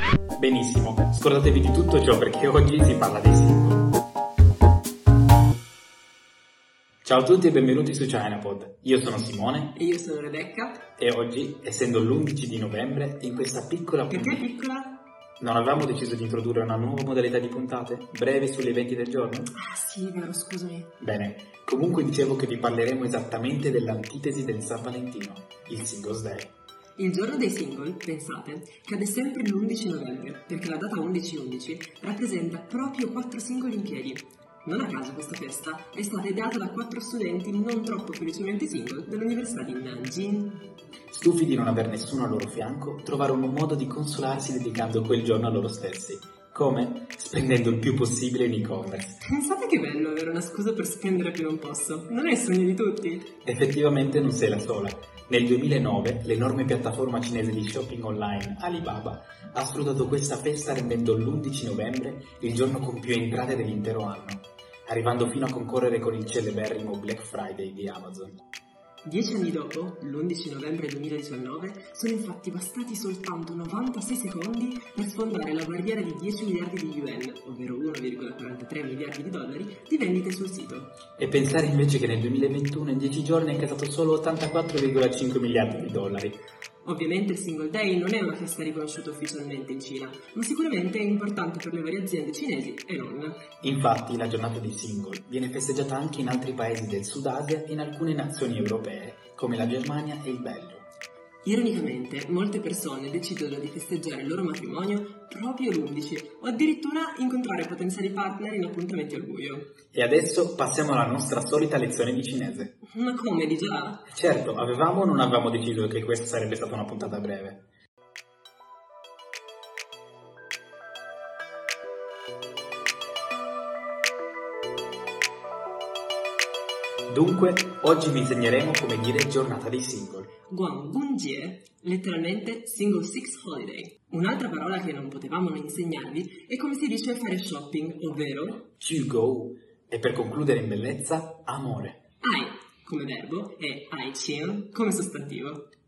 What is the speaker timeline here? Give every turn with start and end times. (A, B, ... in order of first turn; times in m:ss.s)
0:00.4-0:03.8 A
0:07.0-0:09.7 A
0:09.8-0:10.9 B
0:11.0-0:14.4 A
0:14.1-0:15.0 B
0:15.4-0:19.5 A
0:19.5-0:20.9 B
0:21.0-0:26.5 A
0:27.0-0:40.6 B
0:41.1-0:49.2 A
0:49.2-0:53.3 B
0:53.4-1:08.4 A
1:09.0-1:21.0 B
1:21.2-1:26.4 A
1:26.8-1:33.4 B
1:33.6-1:40.9 A
1:41.4-1:49.7 B
1:49.9-1:52.7 A
1:52.8-1:54.1 B
1:54.1-1:57.6 A
2:07.1-2:10.3 A
2:10.5-2:18.7 B
2:18.8-2:22.0 A
2:22.2-2:25.7 B